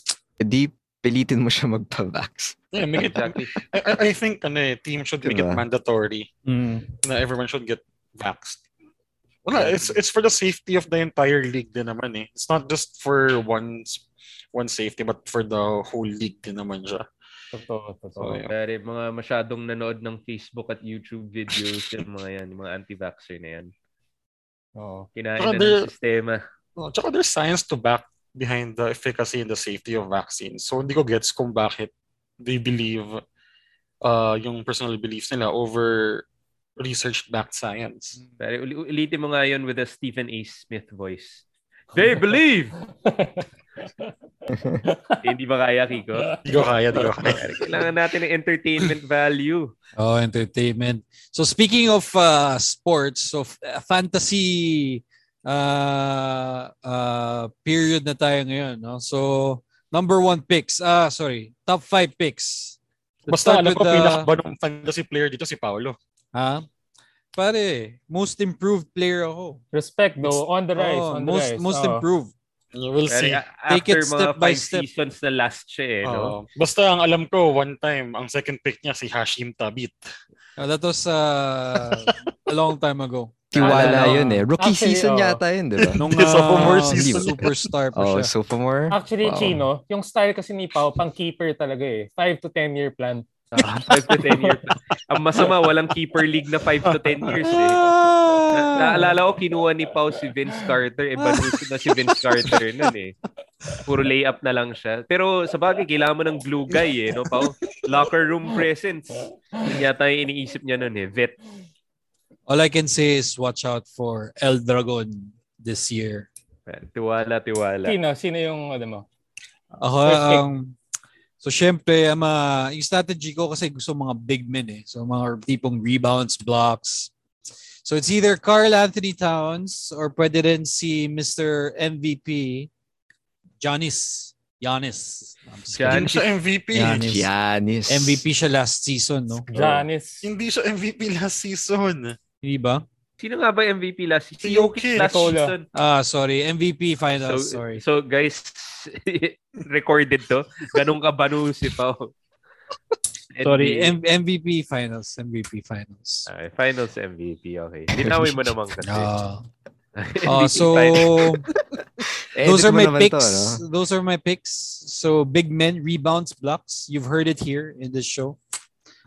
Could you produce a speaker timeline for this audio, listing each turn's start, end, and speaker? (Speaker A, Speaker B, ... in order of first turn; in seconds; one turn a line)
Speaker A: 0.4-2.6
Speaker B: 2.7-6.3
Speaker C: 3.0-3.5
Speaker A: 5.2-5.6
Speaker D: 6.5-6.9
Speaker B: 7.0-8.6
Speaker B: 9.4-17.1
Speaker C: 9.6-9.9
Speaker E: 17.5-18.4
Speaker B: 18.2-18.5
Speaker C: 18.5-23.7
Speaker E: 24.8-25.1
Speaker C: 25.2-26.4
Speaker B: 25.4-25.9
Speaker B: 26.8-33.2
Speaker B: 34.0-36.3
Speaker B: 36.8-38.2
Speaker C: 38.4-42.8
Speaker E: 43.0-43.5
Speaker A: 44.5-44.8
Speaker E: 44.8-45.2
Speaker C: 45.2-46.4
Speaker B: 46.4-47.6
Speaker C: 47.0-49.7
Speaker D: 50.0-64.3
Speaker B: 63.3-66.0
Speaker D: 66.3-66.7
Speaker D: 67.3-69.6
Speaker E: 69.7-72.0
Speaker D: 70.2-72.3
Speaker B: 72.7-73.4
Speaker C: 73.1-76.3
Speaker D: 73.7-74.9
Speaker B: 76.0-80.0
Speaker D: 80.6-84.4
Speaker B: 81.8-82.2
Speaker A: 83.5-89.6
Speaker C: 83.5-84.2
Speaker E: 84.6-85.4
Speaker B: 85.8-87.5
Speaker D: 86.0-88.3
Speaker E: 88.9-93.3
Speaker C: 93.6-97.8
Speaker B: 93.6-94.0
Speaker B: 96.9-97.5
Speaker D: 97.4-99.1
Speaker C: 98.5-103.2
Speaker D: 101.2-101.5
Speaker C: 103.8-111.4
Speaker B: 107.3-107.8
Speaker D: 112.5-116.3
Speaker C: 116.7-118.0
Speaker E: 117.8-119.1
Speaker D: 119.8-120.8
Speaker E: 120.1-120.5
Speaker D: 121.4-127.1
Speaker D: 127.8-132.7
Speaker D: 133.6-136.1
Speaker C: 135.8-136.3
Speaker B: 135.9-137.1
Speaker D: 136.7-137.3
Speaker A: 137.0-138.2
Speaker D: 137.9-139.5
Speaker E: 139.5-140.3
Speaker B: 139.6-142.2
Speaker D: 142.4-142.8
Speaker C: 143.2-145.7
Speaker B: 144.4-145.2
Speaker E: 145.0-145.6
Speaker D: 145.7-147.8
Speaker C: 147.2-152.1
Speaker C: 153.3-154.0
Speaker D: 153.4-156.3
Speaker C: 156.3-159.1
Speaker D: 157.9-159.5
Speaker C: 160.0-161.3
Speaker D: 160.2-161.4
Speaker A: 162.3-163.6
Speaker D: 162.4-168.4